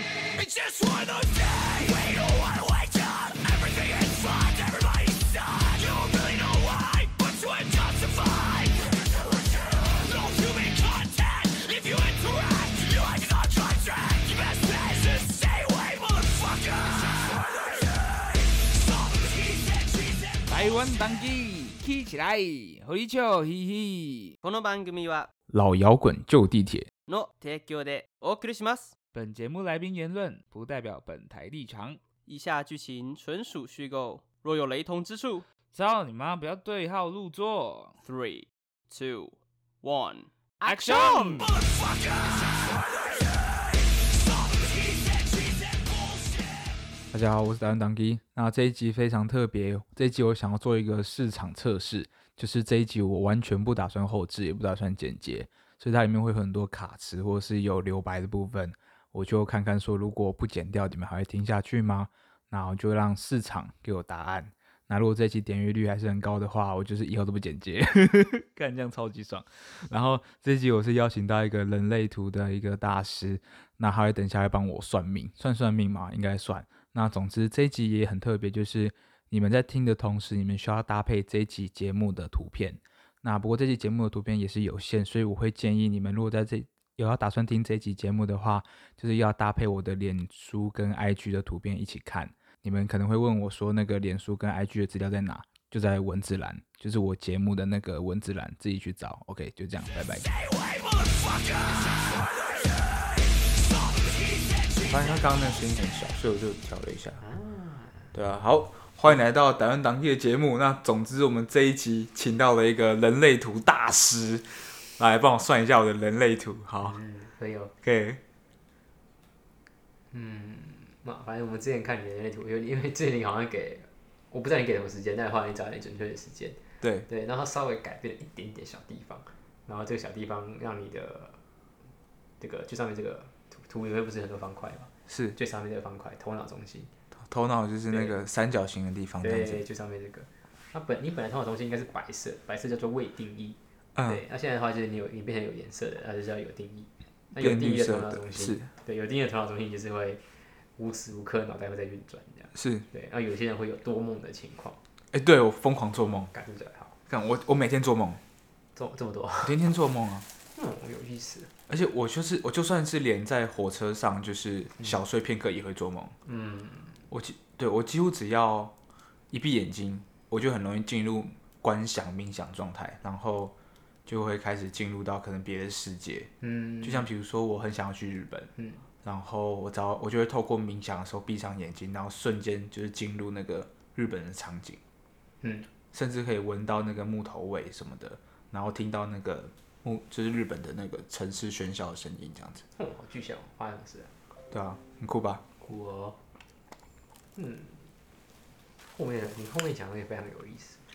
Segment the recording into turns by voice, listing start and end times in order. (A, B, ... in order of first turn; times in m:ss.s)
0:00.3-0:20.8 A
0:20.5-0:24.4 B
0:24.4-0:25.3 C
0:25.5-0:26.9 D
0:27.1-0:28.9 C
0:29.1-0:32.0 B
0:32.2-0:35.4 C
0:35.7-0:38.0 B
0:38.0-0:41.4 C
0:40.6-0:41.5 B
0:40.9-0:46.7 A
0:47.1-1:40.3 D
1:40.2-1:45.2 A
1:44.9-1:47.2 D
1:47.2-1:48.1 E
1:48.1-1:57.0 D
1:56.8-1:57.7 E
1:57.8-1:58.2 D
2:00.1-2:11.4 E
2:06.8-2:07.0 D
2:12.4-2:16.9 E
2:15.1-2:15.4 D
2:17.2-2:19.6 D
2:17.9-2:18.1 E
2:19.2-2:30.2 E
2:24.0-2:24.2 D
2:27.4-2:28.7 D
2:30.8-2:34.8 E
2:32.5-2:32.8 D
2:35.1-2:36.3 D
2:36.3-2:36.9 E
2:37.1-2:38.2 D
2:38.8-2:39.6 E
2:39.4-2:40.2 D
2:40.5-2:41.5 E
2:41.7-2:46.1 D
2:46.2-2:47.0 E
2:47.1-2:48.7 D
2:49.3-2:53.5 D
2:54.1-2:56.3 D
2:56.4-2:57.1 E
2:56.8-2:58.5 D
2:58.6-2:58.8 E
2:59.0-3:04.8 D
3:05.4-3:05.7 E
3:05.9-3:12.6 D
3:12.8-3:14.1 E
3:14.5-3:15.4 D
3:15.6-3:16.2 E
3:17.3-3:17.9 E
3:18.9-3:20.8 E